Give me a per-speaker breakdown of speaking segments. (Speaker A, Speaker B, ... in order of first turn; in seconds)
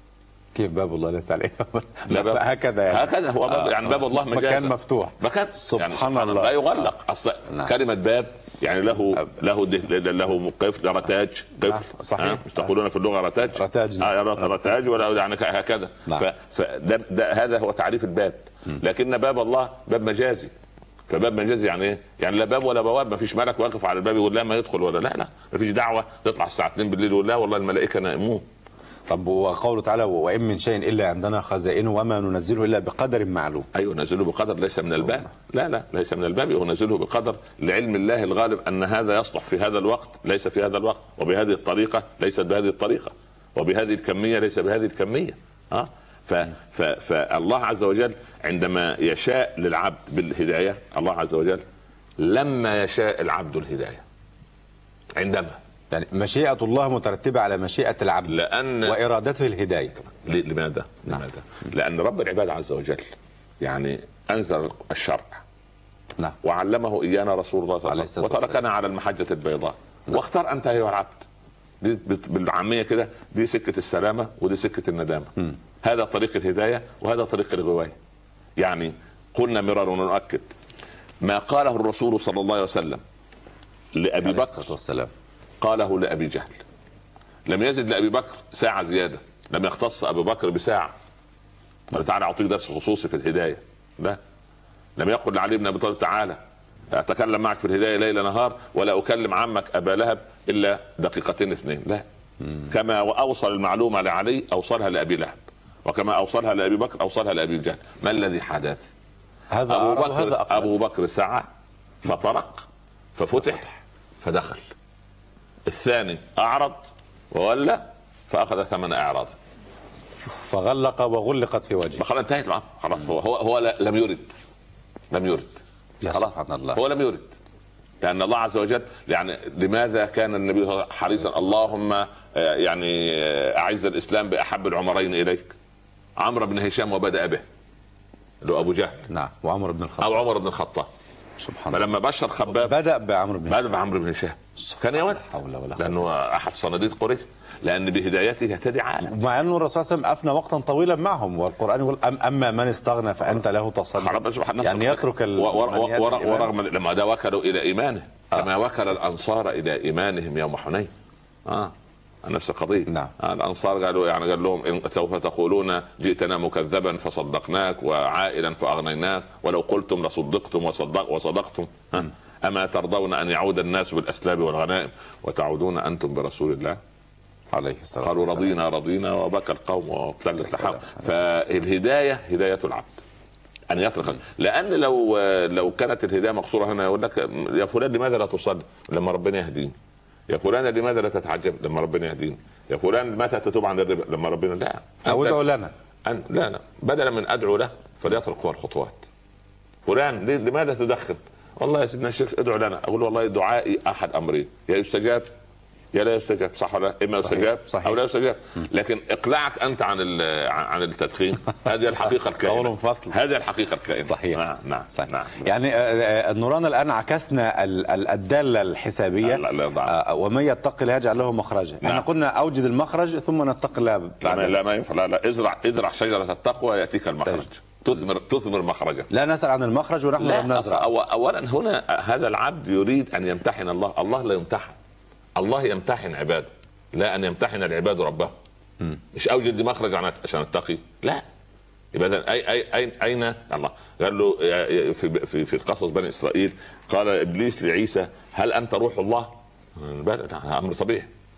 Speaker A: 0.5-6.8, 11.7-12.7, 13.5-14.2, 29.1-33.7, 55.9-60.0, 67.9-68.6, 84.2-85.1, 109.5-110.7, 120.2-122.0, 126.0-126.8, 139.1-140.1, 141.4-141.8, 142.5-143.6, 145.0-146.0, 149.0-156.5, 177.5-178.5, 180.6-181.0, 195.1-195.7, 207.2-207.9, 212.4-213.2, 213.9-214.4, 214.9-224.6, 229.1-230.9
Speaker B: 2.1-20.5, 21.1-28.4, 33.7-51.6, 52.2-54.0, 55.1-55.6, 58.3-59.0, 60.1-65.4, 66.4-71.2, 71.8-78.0, 78.6-80.5, 81.2-83.0, 83.9-84.7, 85.6-86.6, 87.5-90.9, 91.9-94.2, 95.0-102.0, 102.7-108.8, 109.7-111.5, 112.0-113.7, 114.2-114.6, 115.7-119.3, 122.0-124.3, 125.1-125.6, 126.1-127.3, 128.0-135.5, 136.2-137.4, 138.4-139.1, 140.0-140.9, 141.7-142.8, 143.5-145.2, 145.8-149.1, 154.0-160.9, 161.4-176.8, 178.0-182.9, 183.7-189.8, 190.3-195.4, 196.0-199.0, 199.8-205.3, 205.9-215.4, 219.2-219.9, 224.2-229.1, 230.2-234.8, 235.3-238.3, 239.1-241.2, 241.9-251.1